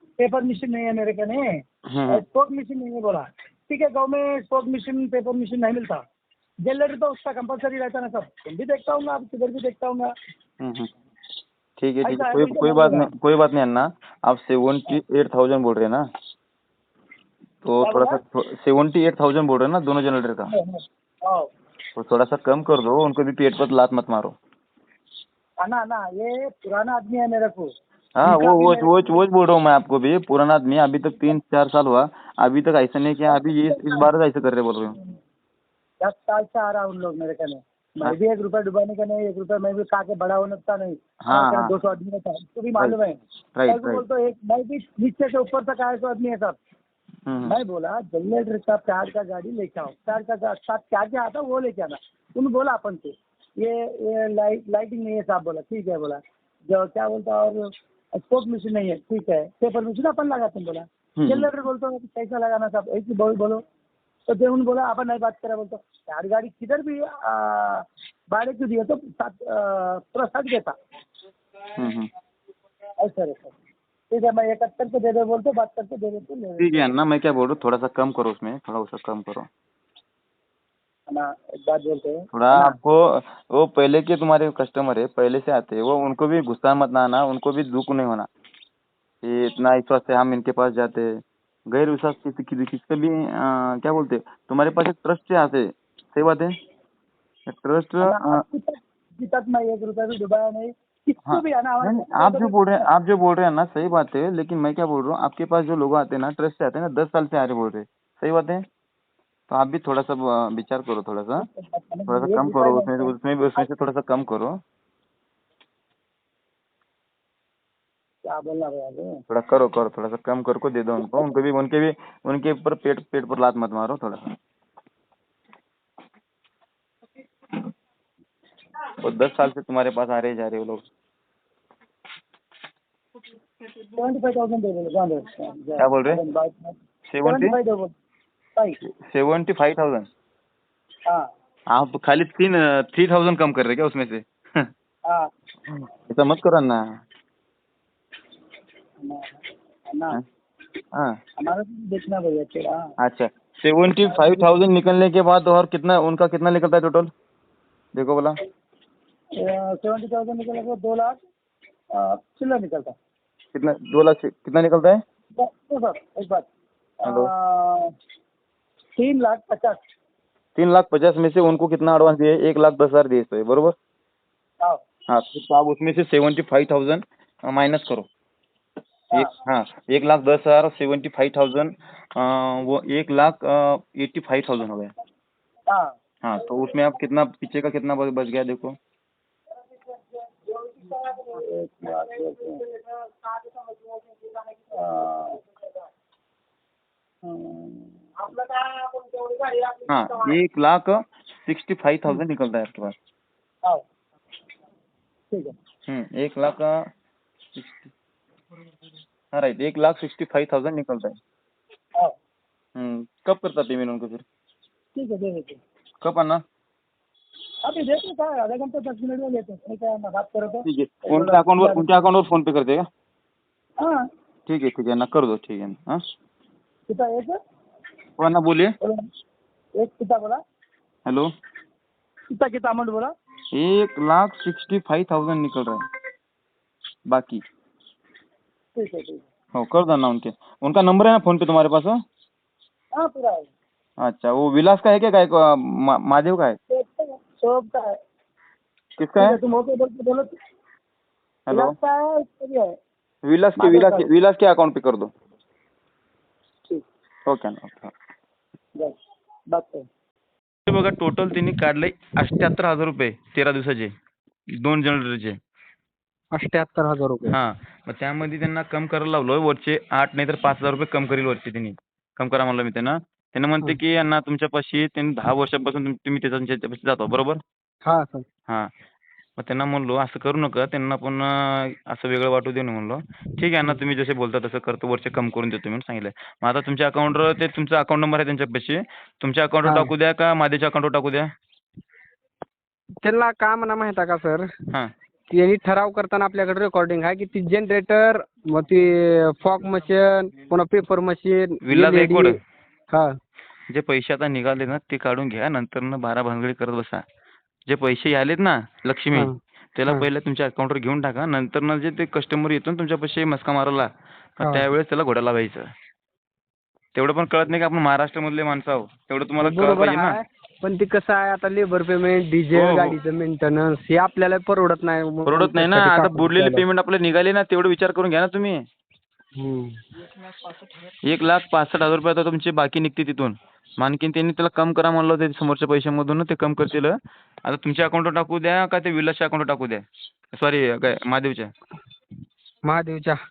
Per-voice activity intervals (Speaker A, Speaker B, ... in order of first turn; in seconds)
Speaker A: 0.2-6.0, 6.7-10.1, 12.0-13.1, 17.8-18.2, 20.5-21.4, 25.6-27.7, 28.2-28.9, 33.3-34.1, 36.0-46.5, 47.4-57.6, 58.2-63.6, 64.3-70.7, 73.0-73.5, 74.1-76.8, 81.1-82.7, 98.0-102.8, 111.5-113.1, 118.3-119.1, 133.9-137.9, 149.0-149.4, 149.9-150.2, 151.4-152.9, 154.1-154.5, 159.4-161.2, 161.9-162.9, 165.4-166.4, 167.0-167.9, 169.0-169.8, 185.7-185.9, 191.0-192.6, 194.7-195.4, 197.2-199.7, 214.9-215.6, 217.7-221.8, 226.9-227.4, 229.8-230.4, 232.3-233.1, 238.8-239.2, 242.9-243.5, 246.7-247.9, 249.2-250.3, 251.5-252.7, 253.6-254.1, 259.5-259.8
Speaker B: 1.9-2.2, 10.6-10.9, 11.8-16.0, 17.6-20.5, 21.9-24.3, 28.2-35.0, 41.2-41.7, 43.5-44.0, 47.3-47.5, 61.2-61.5, 71.8-72.1, 76.6-79.5, 82.3-88.3, 89.2-91.1, 91.7-96.5, 97.5-98.4, 101.2-108.6, 109.5-111.4, 112.1-114.6, 119.3-124.3, 129.0-130.8, 135.8-136.2, 137.1-137.5, 139.0-140.1, 141.7-144.7, 145.7-146.8, 153.0-157.1, 157.9-158.3, 163.5-165.0, 167.0-167.3, 170.6-173.7, 175.1-178.1, 179.1-184.9, 186.2-188.8, 199.8-202.9, 205.9-206.8, 207.5-207.9, 209.3-211.2, 212.8-214.2, 216.0-216.4, 220.6-222.8, 224.5-226.0, 228.2-228.7, 233.5-235.8, 237.1-237.4, 239.6-242.0, 244.0-246.6, 249.0-249.4, 251.5-251.7, 253.2-255.1, 257.3-257.9, 260.7-263.9, 264.6-265.4, 267.3-277.4, 279.4-291.3, 301.6-302.4, 303.7-307.0, 307.7-315.7, 316.9-320.2, 322.5-323.0, 325.2-328.6, 331.0-339.8, 340.3-341.5
Speaker C: 266.3-267.4, 277.9-278.2, 289.6-289.9, 293.0-294.5, 295.3-302.4, 314.4-314.7, 319.4-326.6, 329.4-329.7, 342.7-343.2